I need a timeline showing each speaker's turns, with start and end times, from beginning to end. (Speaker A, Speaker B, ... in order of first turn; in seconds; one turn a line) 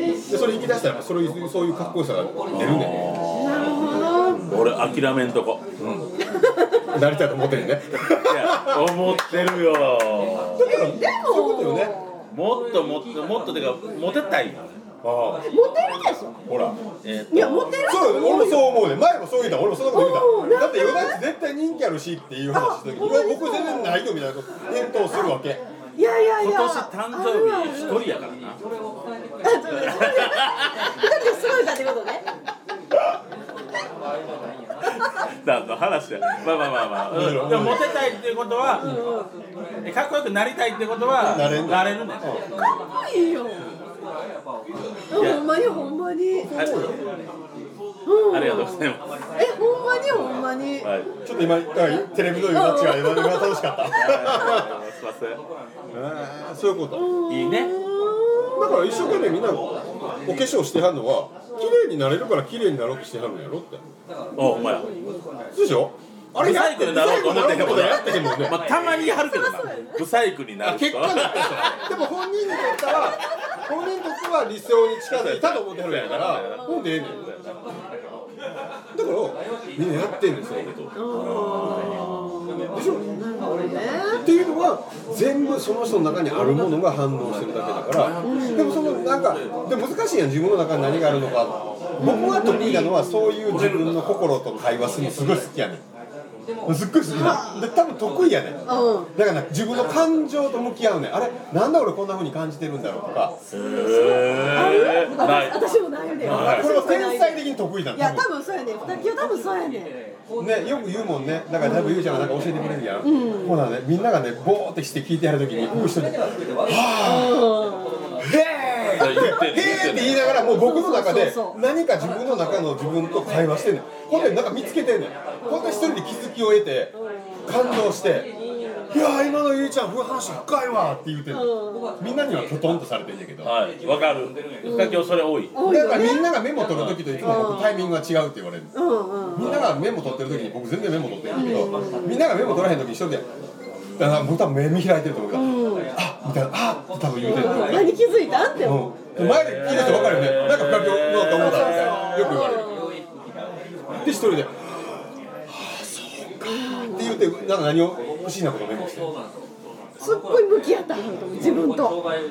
Speaker A: 0.3-3.1
Speaker B: 2.5-5.6
Speaker C: 3.4-4.6
Speaker A: 5.8-6.1
Speaker C: 6.3-6.9
Speaker A: 6.9-8.9
Speaker B: 8.0-10.7
Speaker A: 10.5-12.0
Speaker C: 10.7-12.3
Speaker B: 12.3-14.7
Speaker A: 15.0-15.4
Speaker C: 15.4-16.4
Speaker A: 16.5-16.8
Speaker B: 17.0-17.8
Speaker C: 17.3-18.8
Speaker A: 17.9-25.6
Speaker C: 19.9-21.2
Speaker C: 22.5-24.0
Speaker C: 25.1-25.3
Speaker C: 26.0-28.1
Speaker B: 26.4-28.6
Speaker C: 29.4-32.3
Speaker B: 29.7-31.0
Speaker C: 34.8-35.2
Speaker B: 34.8-39.0
Speaker A: 37.1-37.9
Speaker C: 38.8-39.4
Speaker B: 39.8-42.4
Speaker A: 41.2-42.5
Speaker C: 42.5-43.7
Speaker C: 45.1-46.5
Speaker B: 45.1-45.6
Speaker A: 46.4-47.0
Speaker B: 46.5-47.0
Speaker C: 48.1-50.9
Speaker B: 48.3-49.1
Speaker B: 50.8-51.1
Speaker A: 51.2-54.7
Speaker C: 52.5-54.7
Speaker B: 53.9-55.4
Speaker A: 55.9-57.1
Speaker C: 56.9-59.2
Speaker B: 57.3-57.7
Speaker A: 58.6-63.8
Speaker B: 64.4-64.9
Speaker C: 64.4-65.2
Speaker A: 65.5-68.6
Speaker B: 66.4-71.8
Speaker C: 68.4-69.9
Speaker A: 70.6-77.3
Speaker B: 74.9-77.6
Speaker C: 76.7-77.1
Speaker A: 78.9-80.9
Speaker B: 80.8-82.7
Speaker C: 80.9-84.2
Speaker A: 82.7-83.0
Speaker A: 84.2-95.8
Speaker C: 88.2-89.0
Speaker C: 92.0-93.4
Speaker A: 96.7-98.6
Speaker C: 97.1-97.7
Speaker C: 98.7-99.1
Speaker A: 99.1-103.4
Speaker B: 103.5-105.7
Speaker C: 103.6-110.0
Speaker B: 106.2-106.7
Speaker A: 106.2-108.3
Speaker A: 110.4-117.6
Speaker C: 111.6-112.2
Speaker C: 113.0-113.6
Speaker C: 115.7-116.1
Speaker C: 117.0-118.1
Speaker A: 118.2-128.3
Speaker B: 119.0-120.3
Speaker C: 119.0-121.6
Speaker C: 125.4-126.1
Speaker C: 126.9-127.7
Speaker C: 128.2-128.9
Speaker A: 128.9-133.5
Speaker C: 131.3-132.0
Speaker B: 133.4-135.6
Speaker C: 134.6-136.3
Speaker A: 135.6-138.7
Speaker B: 136.6-137.2
Speaker C: 137.2-137.9
Speaker C: 138.7-139.7
Speaker A: 139.3-143.3
Speaker B: 139.4-139.7
Speaker C: 141.3-142.2
Speaker A: 144.0-147.9
Speaker C: 145.3-145.9
Speaker C: 147.2-148.9
Speaker A: 148.6-152.7
Speaker B: 149.2-152.5
Speaker C: 149.7-150.3
Speaker C: 151.3-153.0
Speaker A: 153.9-154.8
Speaker A: 155.5-159.1
Speaker C: 156.4-157.3
Speaker C: 160.0-162.0